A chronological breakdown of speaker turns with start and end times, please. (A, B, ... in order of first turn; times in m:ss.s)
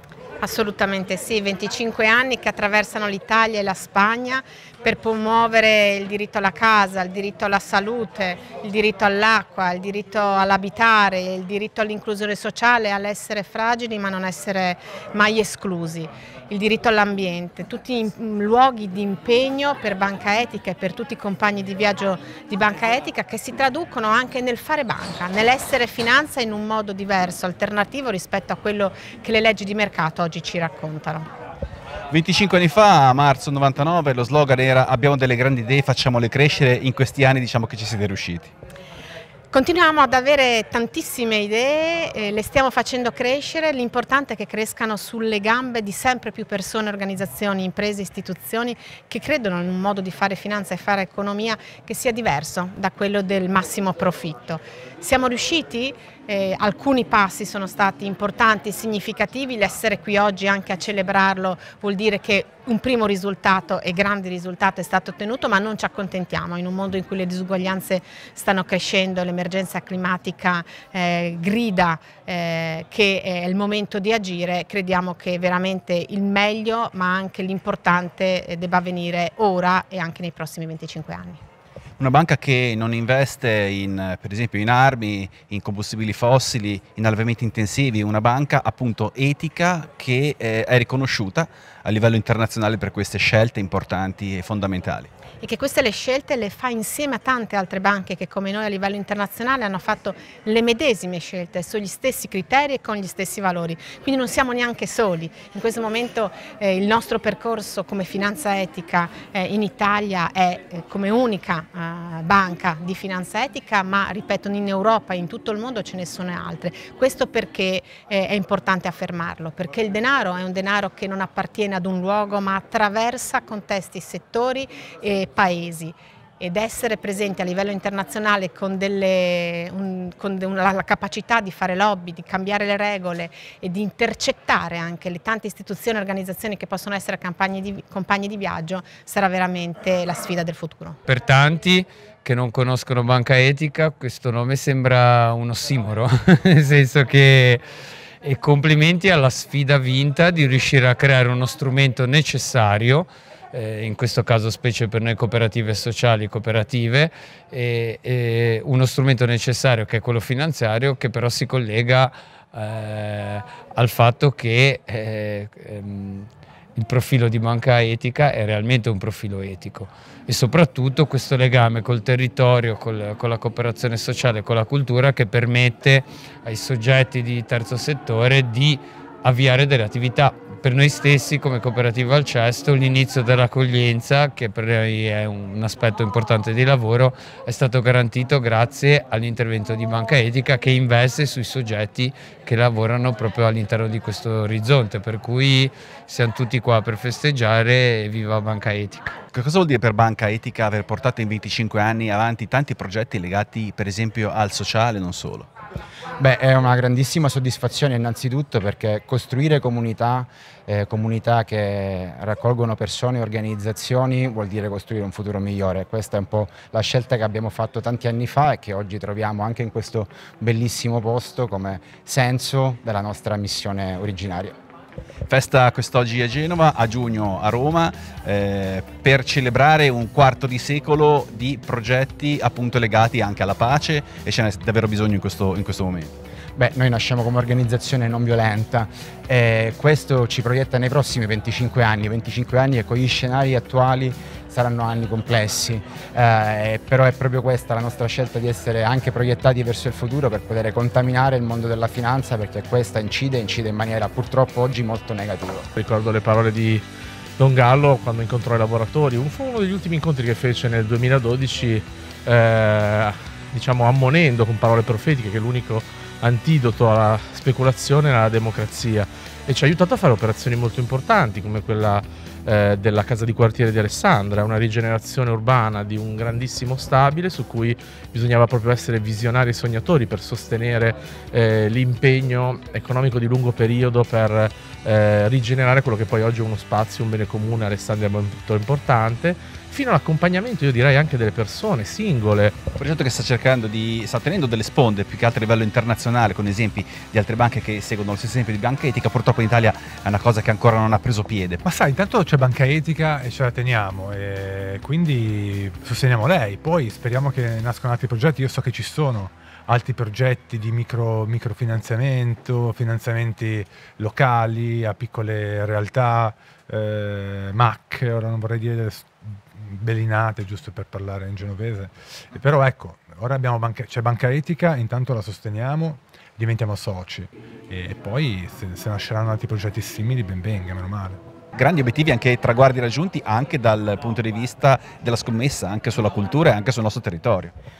0:00.4-0:31.3 A
0:32.1-0:38.5 B
0:39.5-1:21.4 A
1:22.0-1:35.1 B
1:35.4-2:21.0 A
2:21.0-2:27.6 C
2:28.2-3:19.1 C
3:19.3-3:25.5 B
3:26.2-3:44.5 D
3:45.3-3:56.2 B
3:56.6-4:15.7 D
4:15.8-4:16.8 E
4:17.4-4:52.5 E
4:52.7-5:01.6 B
5:01.6-5:31.2 F
5:31.5-5:37.5 B